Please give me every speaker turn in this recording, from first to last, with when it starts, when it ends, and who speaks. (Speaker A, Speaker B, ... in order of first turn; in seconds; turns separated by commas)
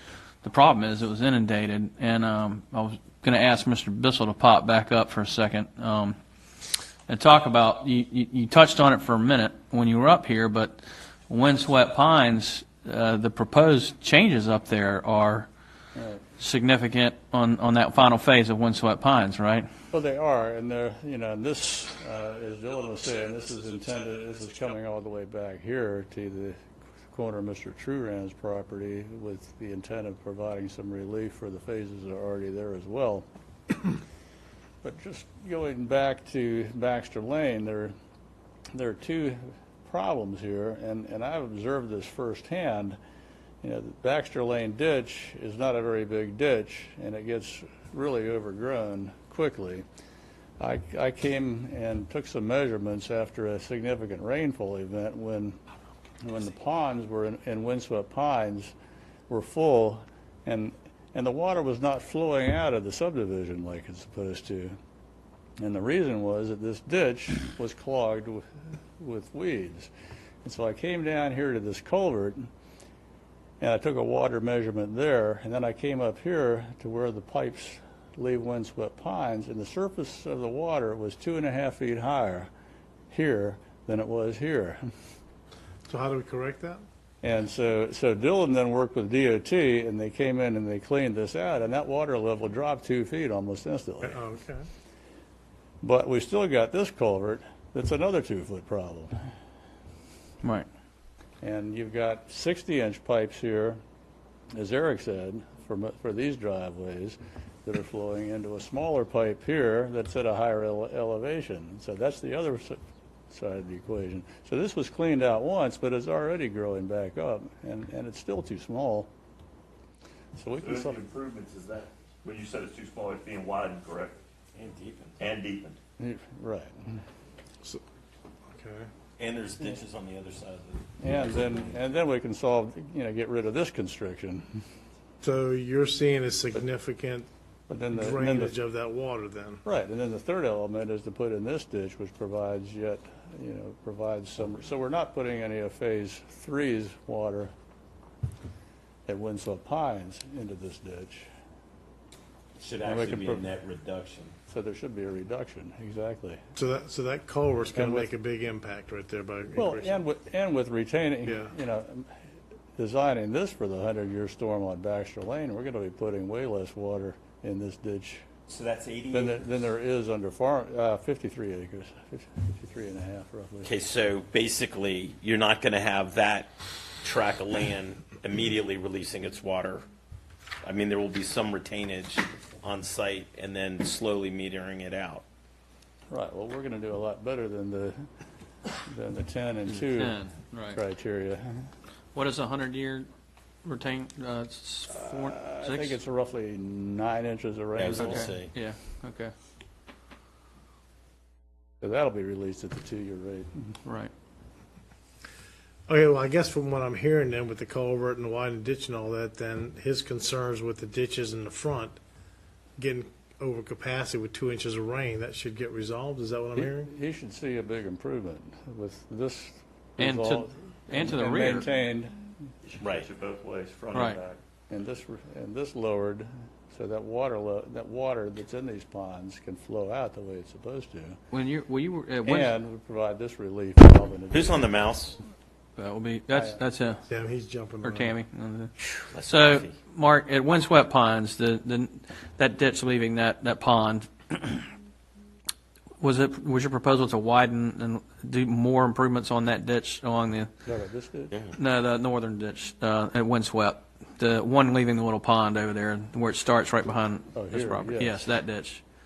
Speaker A: 0.4-6.2, Speaker A: 7.1-15.5, Speaker B: 15.9-16.2, Speaker A: 16.4-19.7, Speaker B: 19.9-26.6, Speaker B: 27.1-33.3, Speaker B: 34.8-37.9, Speaker B: 38.7-43.0, Speaker B: 43.6-49.9, Speaker B: 50.6-55.6, Speaker B: 56.2-58.7, Speaker B: 59.3-64.8, Speaker B: 65.6-68.5, Speaker B: 69.0-69.9, Speaker B: 70.4-72.5, Speaker B: 73.6-82.5, Speaker B: 83.1-84.8, Speaker C: 85.9-86.8, Speaker B: 87.2-94.2, Speaker C: 94.0-94.7, Speaker B: 95.8-99.1, Speaker B: 101.4-103.8, Speaker B: 104.5-112.8, Speaker B: 113.3-119.1, Speaker B: 120.4-121.0, Speaker D: 120.6-124.2, Speaker E: 124.5-125.3, Speaker D: 125.2-125.8, Speaker B: 126.0-127.0, Speaker C: 128.5-128.9, Speaker E: 129.2-131.8, Speaker B: 131.0-134.4, Speaker C: 135.2-137.3, Speaker B: 137.7-138.6, Speaker C: 137.9-139.6, Speaker B: 139.7-147.5, Speaker B: 149.1-151.3, Speaker E: 152.6-154.3, Speaker B: 152.8-153.5, Speaker B: 154.5-156.4, Speaker C: 156.6-160.0, Speaker B: 157.8-158.1, Speaker B: 159.6-162.1, Speaker C: 161.3-161.5, Speaker B: 162.8-168.3, Speaker E: 168.5-169.4, Speaker B: 169.1-173.7, Speaker E: 173.6-176.5, Speaker E: 177.0-179.9, Speaker E: 180.6-185.2, Speaker B: 186.1-188.0, Speaker B: 188.8-190.2, Speaker A: 189.7-190.8, Speaker B: 190.7-191.7, Speaker A: 192.2-193.1, Speaker A: 193.7-196.0, Speaker B: 195.4-198.3, Speaker E: 197.8-198.5, Speaker A: 198.0-199.3, Speaker B: 201.8-203.5, Speaker A: 203.8-204.1, Speaker C: 205.9-212.0, Speaker C: 212.8-216.9, Speaker B: 216.6-222.3, Speaker A: 220.0-221.7, Speaker D: 222.6-224.4, Speaker E: 222.8-223.1, Speaker A: 223.9-224.2, Speaker B: 224.7-231.2, Speaker A: 231.3-232.5, Speaker B: 232.2-234.7, Speaker E: 234.3-235.2, Speaker A: 235.8-237.0, Speaker B: 236.3-236.6, Speaker C: 237.1-238.1, Speaker A: 237.8-244.7, Speaker E: 238.8-239.8, Speaker A: 246.0-250.5, Speaker B: 250.7-251.3, Speaker A: 251.6-258.8, Speaker B: 257.3-258.3